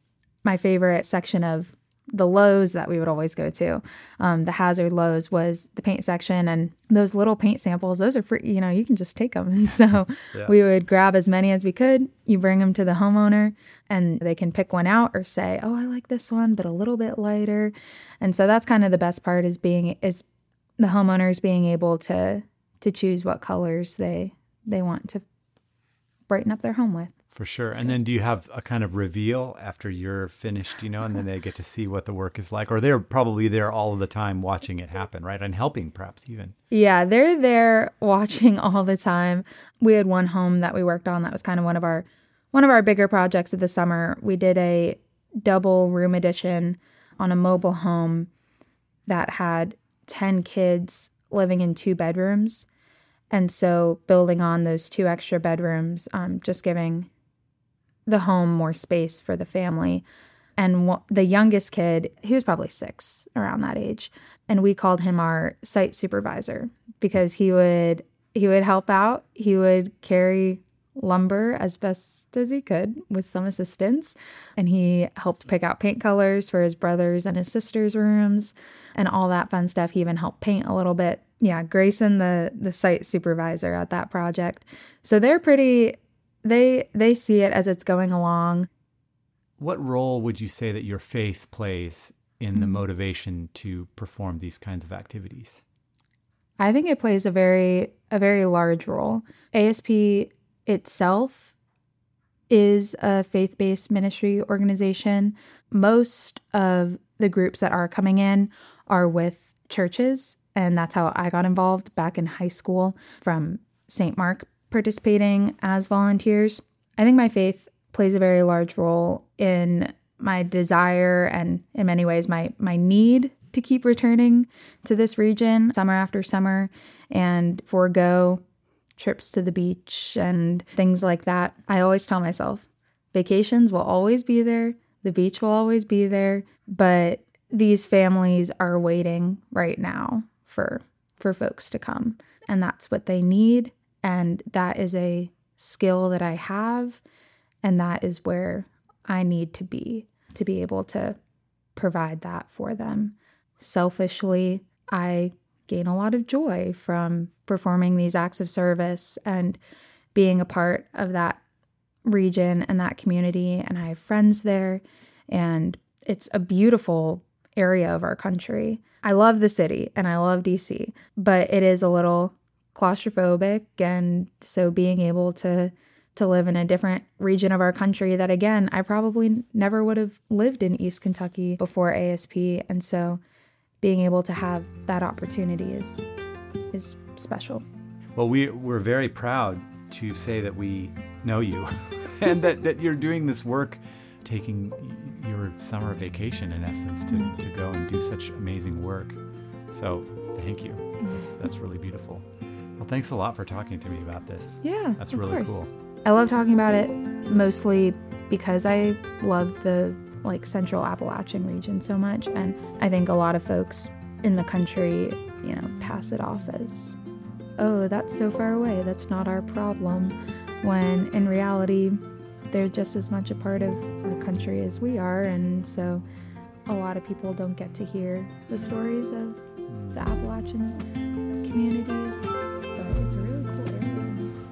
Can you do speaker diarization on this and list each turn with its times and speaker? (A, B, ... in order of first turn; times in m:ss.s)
0:00.4-0:20.2 A
0:20.8-0:25.2 A
0:26.3-0:27.2 A
0:27.3-0:36.5 B
0:36.7-0:48.3 A
0:49.1-0:52.7 A
0:53.3-0:57.1 A
0:58.1-1:00.0 A
1:00.6-1:28.7 A
1:29.6-1:35.6 B
1:36.6-1:41.5 A
1:42.5-2:08.4 A
2:09.0-2:27.0 A
2:27.6-2:31.2 A
2:31.8-2:39.6 A
2:40.1-2:41.4 A
2:42.0-3:03.2 A
3:03.8-3:06.0 A
3:06.7-3:07.6 A
3:08.2-3:19.2 B
3:19.7-3:22.2 B
3:22.8-3:25.7 B
3:24.6-3:37.0 A
3:37.6-3:46.0 A
3:46.7-3:49.4 A
3:49.7-3:50.0 B
3:49.9-3:50.8 A
3:51.4-3:54.3 A